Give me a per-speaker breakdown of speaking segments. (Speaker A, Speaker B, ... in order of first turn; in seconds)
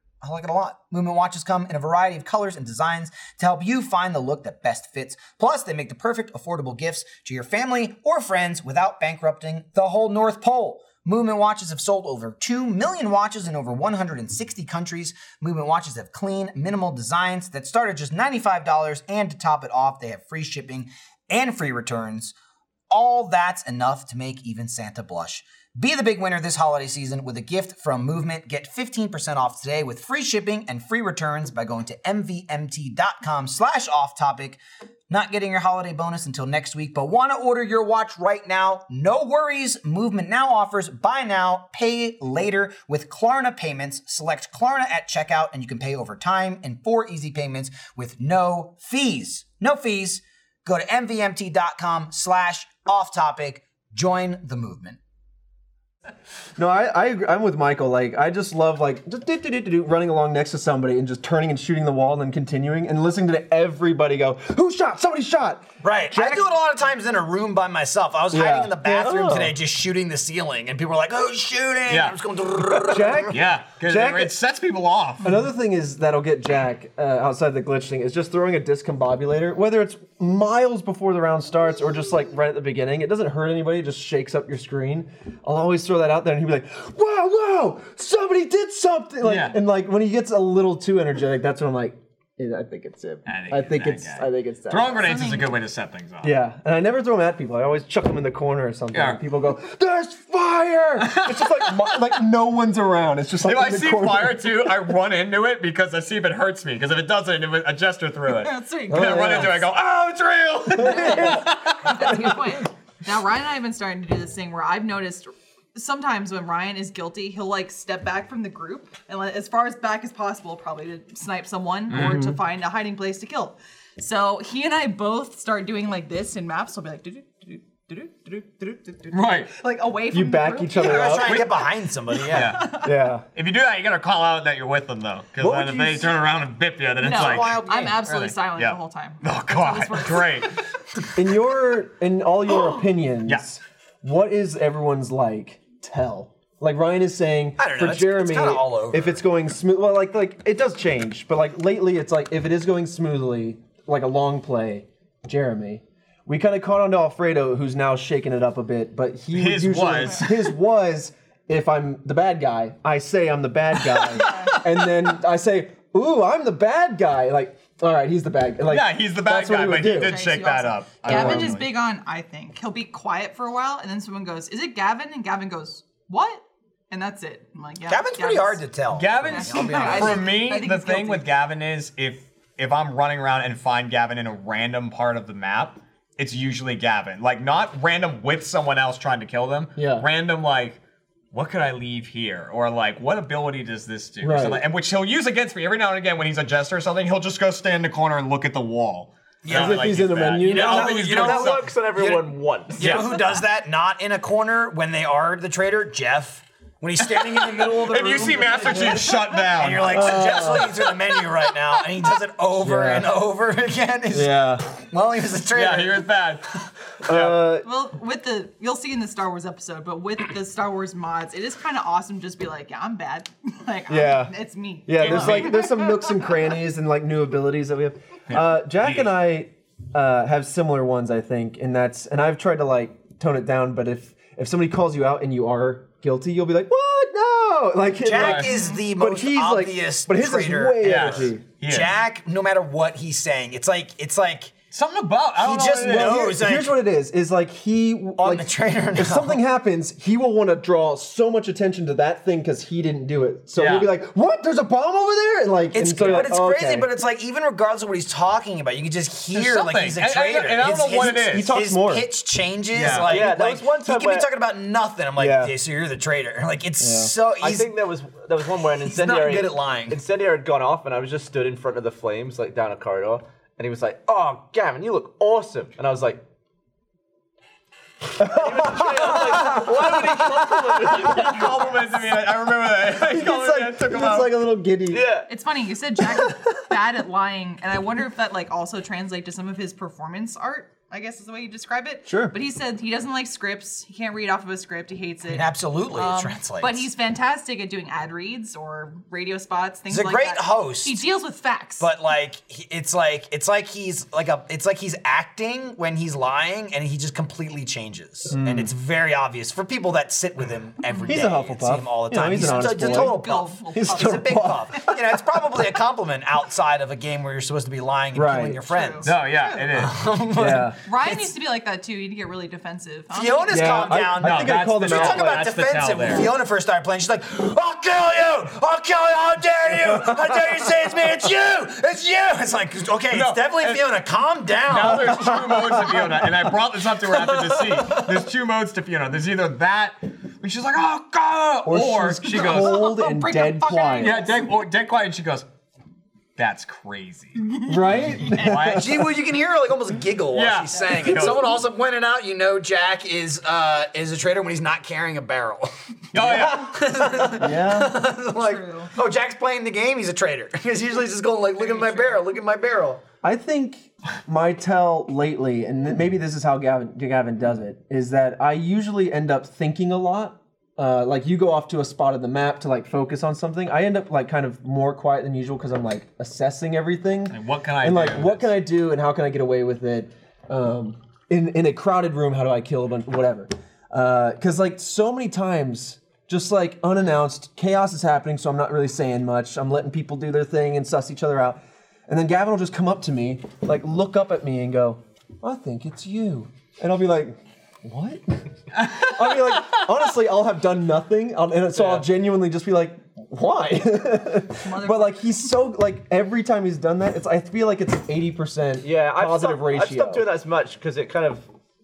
Speaker A: 0.2-22.3, 22.9-34.6, 35.1-55.0, 65.8-73.4, 130.8-132.6, 137.1-138.0, 147.6-149.2, 177.9-180.3, 199.4-216.1, 238.0-244.5, 245.4-246.8, 248.2-249.4, 255.7-267.7, 268.8-270.0, 295.3-296.9, 299.9-301.0, 301.8-319.1, 319.7-320.7, 323.1-335.6, 348.5-363.0
Speaker B: 56.6-66.5, 68.3-69.5, 72.9-74.4, 75.2-95.0, 96.2-104.9, 108.9-109.6, 110.7-112.4, 121.9-122.4, 130.1-131.4, 132.8-133.2, 135.4-136.1, 141.1-170.2, 171.1-171.6, 189.8-190.1, 194.2-194.6, 199.5-201.5, 209.8-210.8, 212.6-213.1, 214.1-214.7, 217.0-217.7, 223.9-224.3, 224.9-241.4, 245.8-256.9, 261.2-262.1, 265.1-265.5, 266.8-267.1, 278.2-281.2, 282.9-285.1, 292.1-292.4, 308.3-308.7, 311.1-313.2, 313.7-315.5, 318.1-318.6, 320.3-320.8, 323.5-325.5, 330.0-330.2, 335.5-335.9, 341.6-344.3, 347.7-349.1, 357.3-357.9, 363.2-410.3
Speaker C: 71.9-72.2, 73.3-75.3, 89.2-89.6, 93.3-96.3, 98.9-99.2, 101.0-101.9, 103.4-112.3, 121.9-122.2, 129.1-129.5, 131.3-131.7, 132.2-140.5, 159.3-160.5, 163.8-165.1, 168.7-171.7, 178.9-190.8, 191.3-201.7, 202.8-203.1, 207.3-210.4, 215.5-216.5, 217.0-217.5, 225.0-225.6, 228.3-229.1, 238.2-238.5, 240.8-241.9, 244.7-246.3, 253.5-253.9, 259.3-261.5, 262.7-263.1, 281.0-284.3, 319.0-320.0, 324.2-326.3, 333.1-333.8, 334.6-342.9, 344.0-345.4, 346.4-349.0, 350.3-351.6, 356.1-356.8, 377.3-378.5, 398.7-399.8
Speaker D: 95.0-95.5, 108.3-109.5, 110.7-131.4, 132.2-132.9, 137.0-140.6, 164.2-164.5, 169.9-178.7, 179.2-181.2, 208.8-209.4, 217.6-226.3, 238.4-238.8, 285.3-301.9, 310.9-311.2, 312.4-314.9, 318.7-319.7, 320.8-324.1, 342.3-344.4, 350.8-351.2, 358.4-358.9, 361.6-362.2, 404.6-405.5
Speaker E: 200.4-203.1, 262.9-264.3, 267.4-276.2, 278.2-281.5, 284.9-285.3, 401.8-402.0, 408.8-411.4